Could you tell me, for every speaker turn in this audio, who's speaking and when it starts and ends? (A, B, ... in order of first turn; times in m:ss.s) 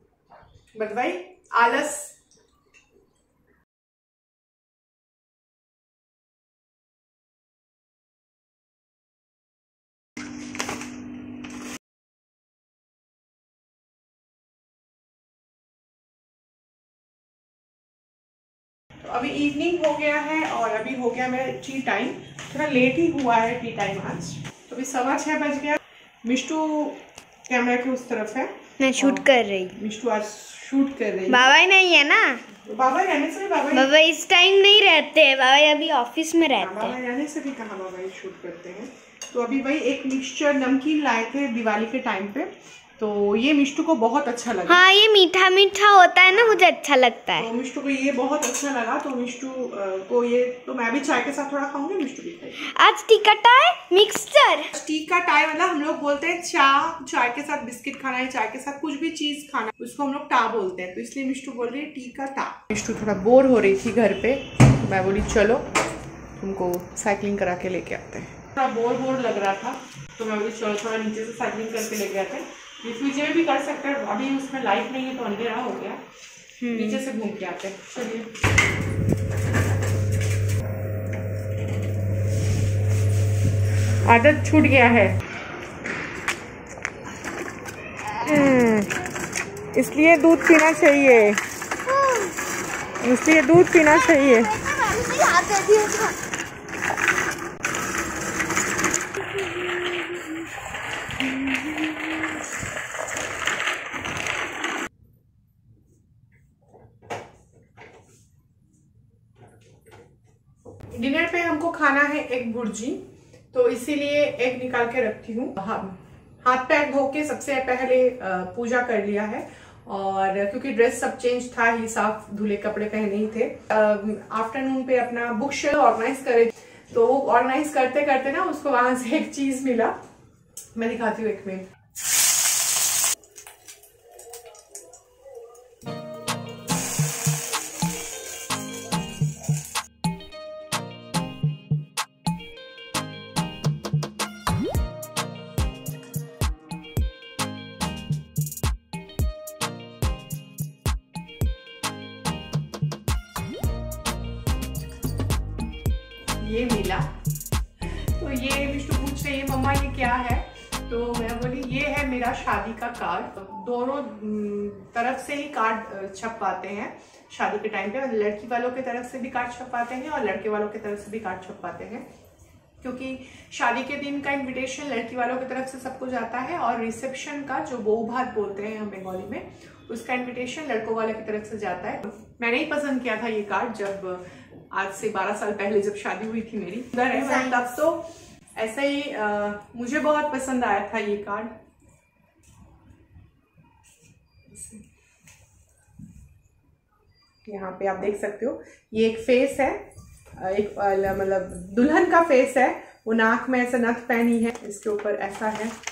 0:00.7-0:02.1 A
0:19.0-0:31.5 A
0:28.8-0:29.8 B
0:31.3-0:32.4 B
0:32.5-0:33.9 A
0:33.7-0:36.9 B
0:36.6-0:44.8 A
0:44.7-0:47.5 B
0:46.3-0:46.6 A
0:47.4-0:52.6 A
0:52.6-0:54.7 B
0:54.7-1:05.7 A
1:06.4-1:16.0 A
1:16.6-1:17.0 B
1:16.7-1:18.3 A
1:24.0-1:25.2 A
1:28.2-1:29.0 A
1:29.7-1:31.4 A
1:31.8-1:32.4 B
1:33.0-1:34.5 A
1:33.8-1:36.2 B
1:39.6-1:40.2 B
1:50.9-1:53.0 A
1:53.5-2:10.0 A
2:10.7-2:11.7 A
2:36.4-2:37.1 A
2:37.8-2:52.0 A
2:52.8-3:08.0 A
3:07.1-3:07.6 B
3:08.6-3:11.5 A
3:14.5-3:14.8 A
3:17.4-3:25.8 A